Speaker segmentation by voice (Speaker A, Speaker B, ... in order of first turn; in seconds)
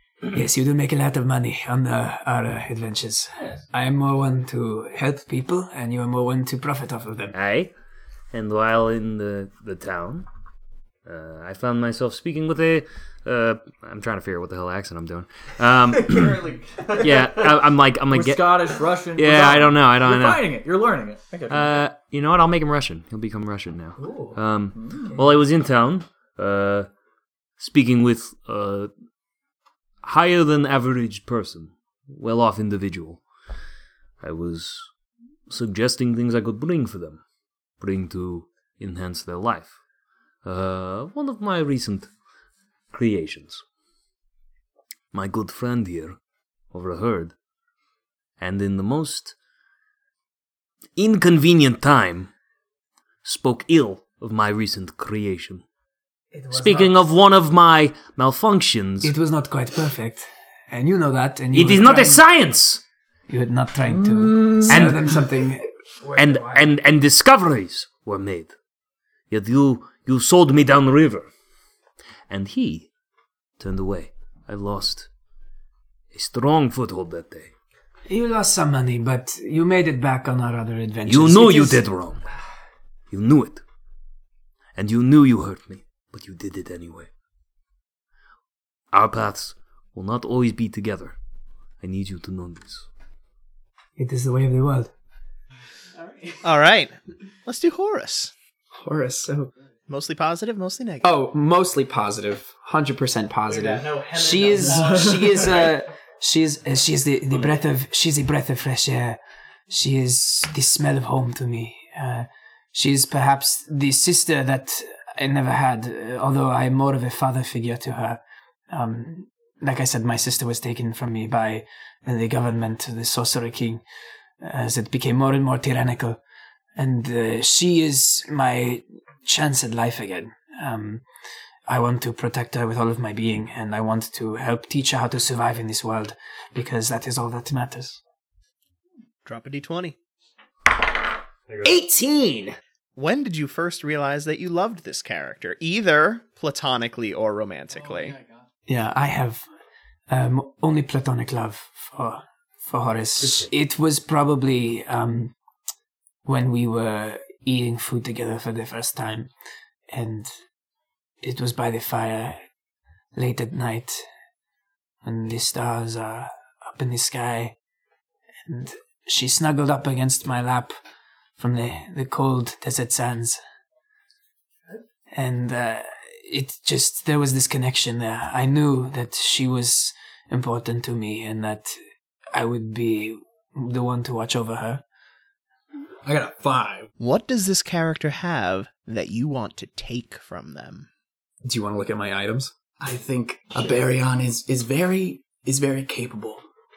Speaker A: 0.3-7.3, 56.3-57.0, 59.0-62.2, 63.3-66.7, 78.1-81.8, 94.0-94.9, 104.1-123.8, 124.4-126.2, 126.8-131.0, 131.7-138.0, 148.7-149.4, 150.1-155.3, 156.2-159.3, 159.9-160.3, 161.2-162.4, 163.1-164.0, 165.0-167.5, 168.4-170.8, 171.4-173.4, 175.1-181.7, 182.3-184.8
Speaker B: 7.3-7.7, 8.3-10.2, 11.0-16.4, 16.9-20.6, 21.5-26.9, 27.6-28.9, 30.0-33.2, 34.2-34.9, 35.5-37.2, 37.8-39.7, 40.4-42.1, 42.9-43.6, 45.1-46.2, 46.7-47.3, 48.4-49.3, 51.0-52.3, 53.2-55.6, 56.5-59.1, 61.5-62.8, 64.7-65.1, 66.2-68.5, 69.3-71.3, 72.3-72.9, 73.6-75.1, 76.1-77.5, 81.1-82.2, 83.1-83.6, 84.8-87.1, 88.9-91.1, 91.8-92.8, 141.5-141.7, 153.2-153.5
Speaker C: 16.1-17.1, 18.1-21.8, 24.1-25.1, 64.2-64.9, 147.9-148.4, 186.0-186.9, 192.8-196.4
Speaker D: 96.4-96.9, 97.4-98.3, 99.9-101.1, 103.5-105.0, 139.2-140.0, 142.9-148.2, 187.0-190.9
Speaker E: 98.8-99.5, 101.0-105.4, 141.6-142.6, 191.4-192.5